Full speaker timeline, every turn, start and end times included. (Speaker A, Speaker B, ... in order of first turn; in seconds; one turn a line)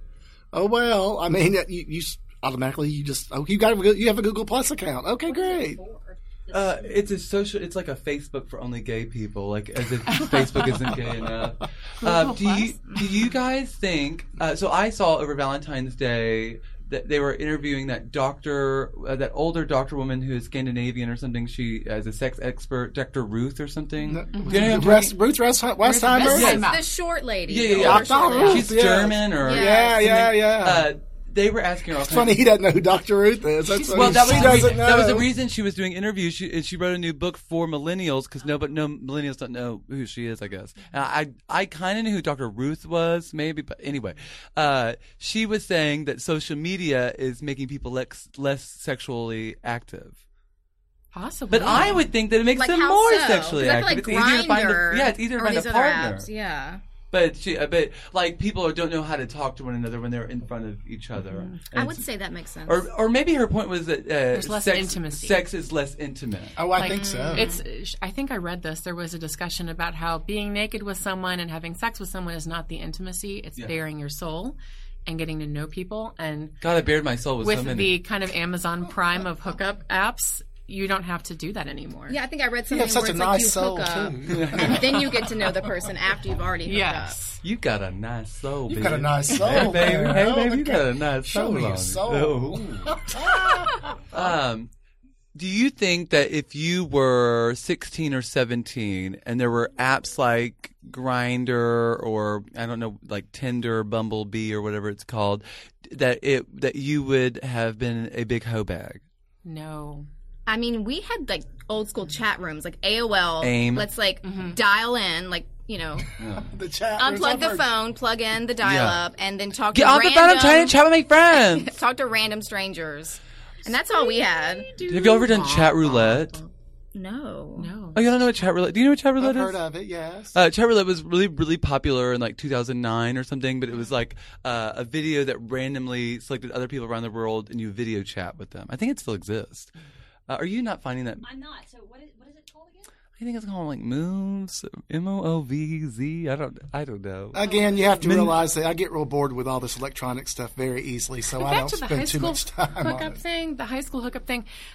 Speaker A: 0.5-5.8
Speaker B: 5.2-7.1
Speaker C: 6.5-25.1
Speaker D: 10.1-10.4
Speaker D: 12.0-13.2
Speaker A: 24.1-26.6
Speaker D: 24.3-24.8
Speaker D: 25.8-26.9
Speaker E: 26.2-28.7
Speaker C: 26.2-26.7
Speaker C: 27.5-32.4
Speaker A: 27.7-30.9
Speaker E: 29.4-30.3
Speaker A: 31.9-35.3
Speaker D: 33.7-34.9
Speaker C: 33.9-50.2
Speaker B: 38.5-38.7
Speaker D: 51.1-52.1
Speaker C: 51.5-56.3
Speaker E: 52.5-56.8
Speaker C: 57.1-62.0
Speaker D: 61.3-61.6
Speaker E: 61.7-62.9
Speaker C: 62.7-66.6
Speaker D: 64.3-65.5
Speaker A: 66.6-67.5
Speaker D: 66.8-76.6
Speaker E: 66.8-67.6
Speaker C: 76.6-78.0
Speaker D: 77.4-82.2
Speaker E: 82.1-87.2
Speaker A: 82.7-85.1
Speaker C: 84.3-85.1
Speaker D: 86.7-87.4
Speaker C: 87.4-93.0
Speaker A: 88.7-94.2
Speaker C: 94.1-94.7
Speaker C: 95.3-109.0
Speaker D: 109.4-110.1
Speaker E: 110.5-116.1
Speaker C: 113.4-113.9
Speaker D: 114.2-114.6
Speaker C: 116.2-116.5
Speaker A: 116.4-117.7
Speaker E: 117.0-120.8
Speaker C: 118.6-119.0
Speaker C: 119.7-121.7
Speaker E: 121.3-124.7
Speaker D: 123.9-126.5
Speaker C: 124.8-126.4
Speaker E: 127.0-127.7
Speaker D: 127.6-128.1
Speaker C: 128.0-129.6
Speaker A: 129.2-130.4
Speaker C: 130.3-139.7
Speaker C: 140.3-141.2
Speaker B: 141.2-142.9
Speaker C: 143.2-147.4
Speaker A: 147.3-153.2
Speaker B: 147.4-148.0
Speaker C: 148.0-148.4
Speaker D: 151.4-154.5